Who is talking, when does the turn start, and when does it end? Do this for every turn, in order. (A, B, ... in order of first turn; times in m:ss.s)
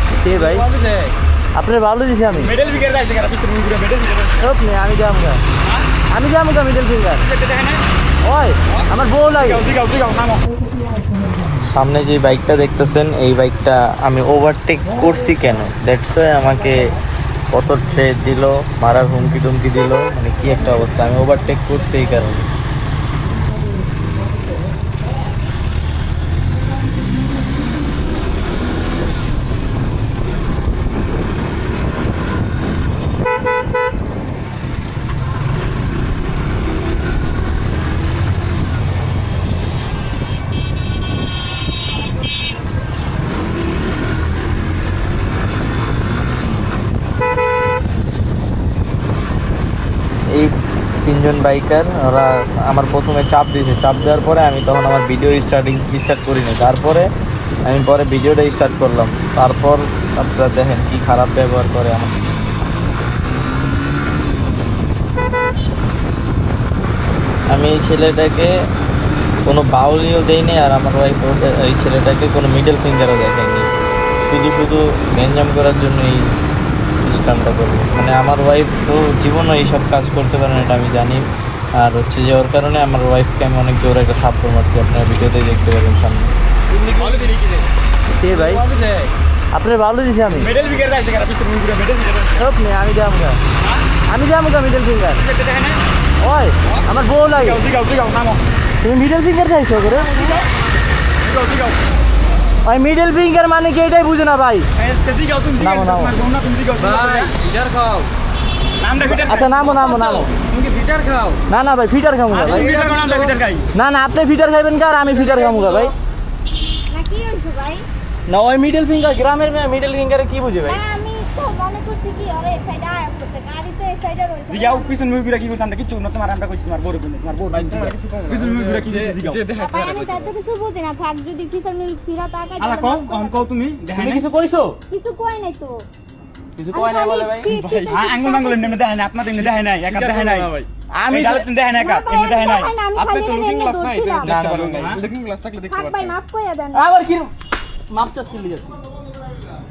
0:00.2-0:00.6 A
0:00.4-0:01.1 B
0:01.5-0:02.5 A
0:02.4-0:04.4 C
0:04.4-0:05.4 A
0:06.1-0:07.2 A
0:07.2-0:07.8 C
0:08.2-0:09.6 A
0:09.4-0:10.4 C
0:11.7-0:16.9 D
0:17.5-0:22.5 D
0:51.0-0:57.1 D
0:57.6-1:02.2 D
1:07.5-1:08.5 D
1:09.4-1:13.7 D
1:14.2-1:16.3 D
1:17.0-1:21.2 D
1:21.8-1:26.3 D
1:26.7-1:27.7 B
1:28.2-1:28.6 A
1:28.3-1:29.1 B
1:29.5-1:30.5 A
1:30.4-1:32.4 C
1:32.4-1:33.4 A
1:33.6-1:33.8 C
1:34.1-1:35.2 A
1:35.2-1:35.8 C
1:36.2-1:37.6 A
1:37.3-1:38.4 C
1:38.8-1:40.1 A
1:39.7-1:40.6 E
1:41.2-1:41.8 C
1:42.6-1:44.7 A
1:44.8-1:47.3 C
1:45.6-1:46.1 A
1:46.8-1:48.1 B
1:48.8-1:49.7 C
1:49.0-1:50.3 A
1:49.8-1:51.4 B
1:51.5-1:52.7 A
1:52.3-1:53.6 C
1:52.5-1:53.3 B
1:53.7-1:55.9 A
1:55.3-1:55.9 B
1:56.9-1:57.8 E
1:58.3-2:00.8 A
2:00.6-2:04.9 E
2:04.5-2:09.4 C
2:07.6-2:10.3 B
2:09.6-2:13.5 E
2:12.6-2:14.2 C
2:14.0-2:14.8 A
2:14.9-2:15.9 E
2:16.6-2:17.5 A
2:16.7-2:18.8 E
2:17.4-2:18.1 B
2:17.9-2:20.5 C
2:19.3-2:20.7 B
2:20.9-2:21.5 A
2:21.1-2:22.8 C
2:21.8-2:24.4 E
2:22.9-2:26.2 B
2:24.2-2:24.7 A
2:24.3-2:25.0 C
2:25.7-2:26.8 E
2:26.7-2:27.3 A
2:27.9-2:28.7 A